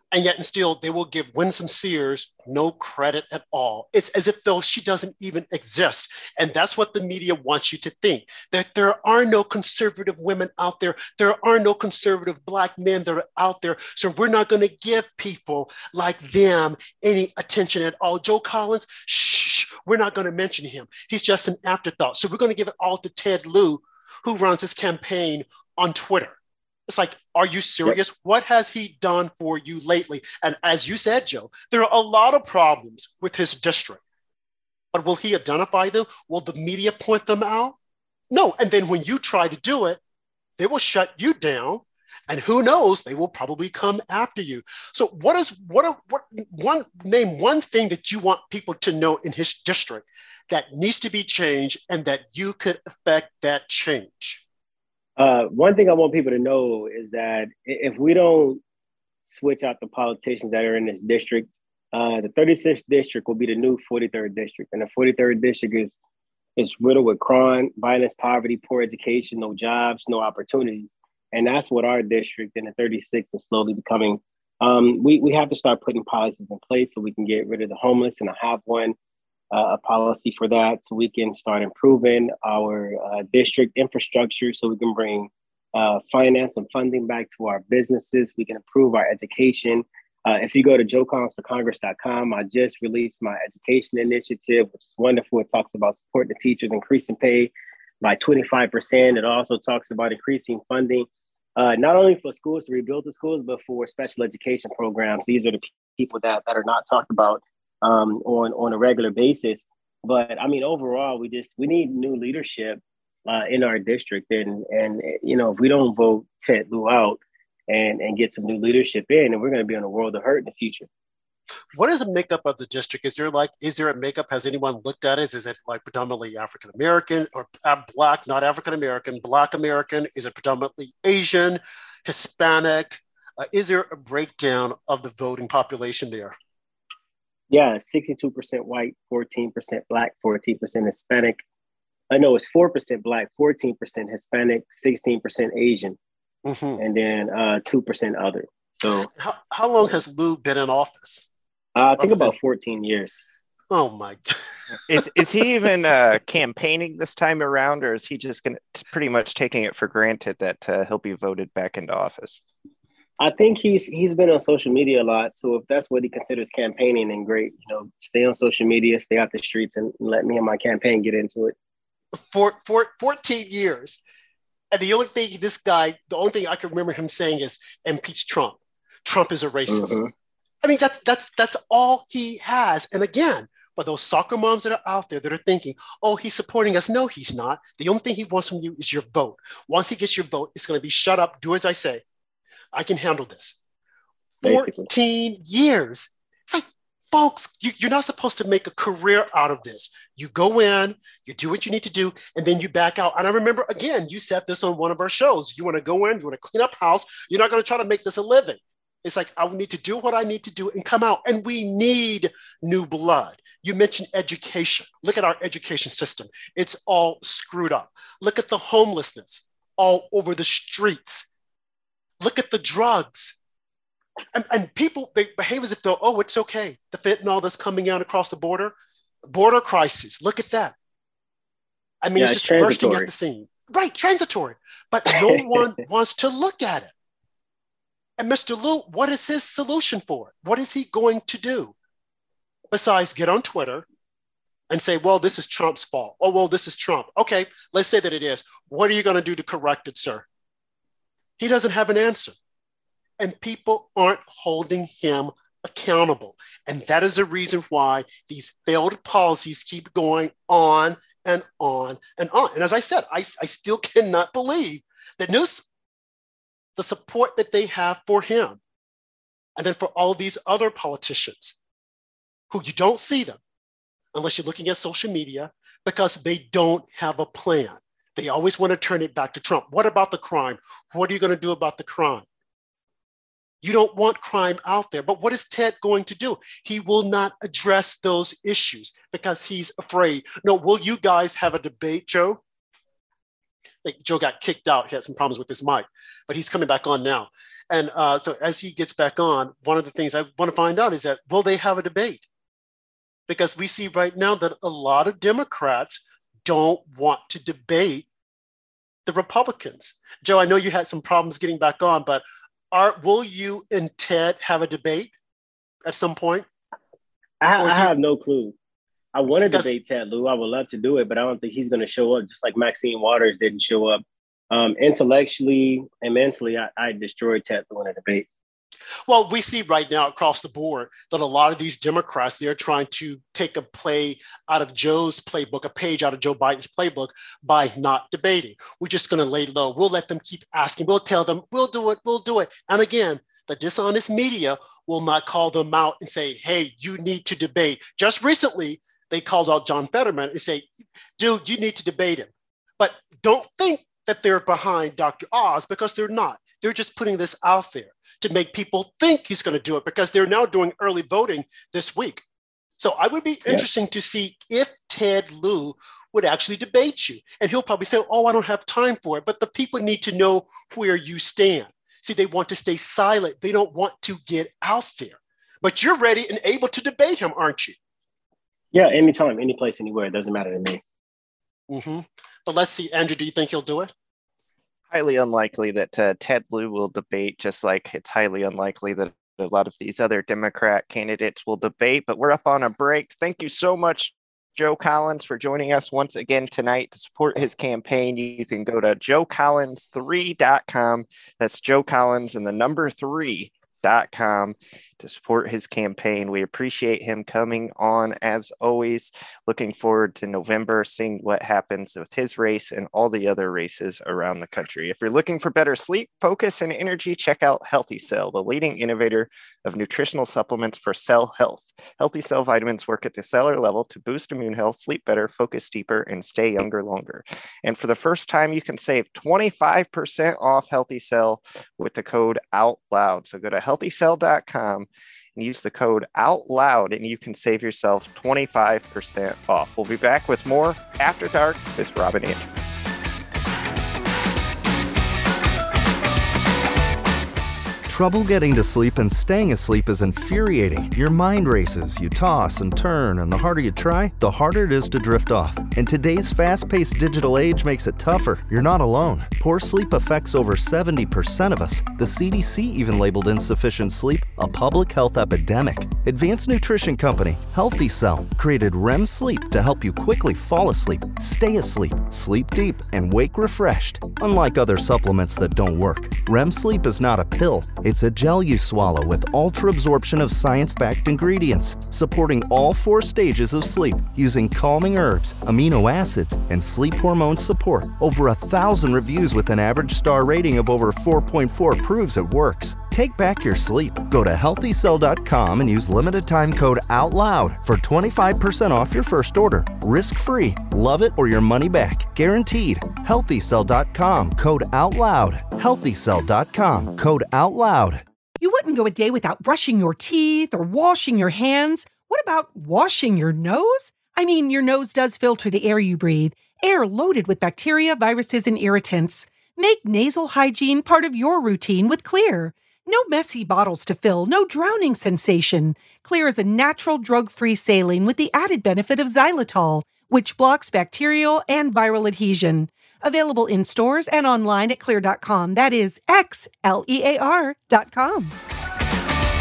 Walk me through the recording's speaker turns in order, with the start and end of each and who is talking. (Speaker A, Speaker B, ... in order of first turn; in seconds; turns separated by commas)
Speaker A: 0.1-34.0, Speaker A: 34.9-37.8, Speaker A: 38.3-40.0, Speaker A: 40.6-54.4, Speaker B: 55.2-58.6, Speaker B: 59.2-65.9, Speaker B: 66.6-78.9, Speaker B: 79.5-97.5, Speaker B: 98.0-120.9, Speaker A: 121.7-136.3, Speaker B: 137.5-141.4, Speaker B: 142.1-146.0, Speaker A: 146.4-146.8, Speaker B: 146.8-149.1, Speaker A: 149.2-151.3, Speaker B: 151.8-153.2, Speaker A: 152.0-152.3, Speaker A: 153.7-154.3, Speaker C: 154.9-162.4, Speaker B: 163.2-171.5, Speaker A: 172.1-174.0, Speaker A: 174.7-179.9, Speaker B: 179.7-180.1, Speaker A: 180.6-192.0, Speaker A: 192.7-193.6, Speaker B: 194.4-194.9, Speaker A: 194.4-221.3, Speaker A: 222.2-223.3, Speaker A: 224.3-228.7, Speaker A: 229.3-230.7, Speaker A: 232.0-236.9, Speaker B: 232.2-233.1, Speaker A: 238.2-241.7, Speaker A: 242.7-243.8, Speaker A: 244.7-250.2, Speaker A: 251.4-252.3, Speaker A: 253.2-265.6, Speaker A: 266.8-268.6, Speaker A: 269.6-271.6, Speaker A: 272.5-273.4, Speaker A: 274.1-282.2, Speaker A: 283.6-292.4, Speaker A: 293.8-302.2, Speaker A: 303.3-308.1, Speaker A: 309.1-315.1, Speaker A: 315.8-316.5, Speaker B: 317.4-318.6, Speaker A: 317.6-317.9, Speaker B: 319.1-328.3, Speaker A: 329.1-362.2, Speaker A: 362.8-377.8, Speaker B: 378.7-380.8, Speaker A: 381.7-383.9, Speaker C: 384.9-442.4, Speaker D: 447.9-508.0, Speaker E: 508.4-538.3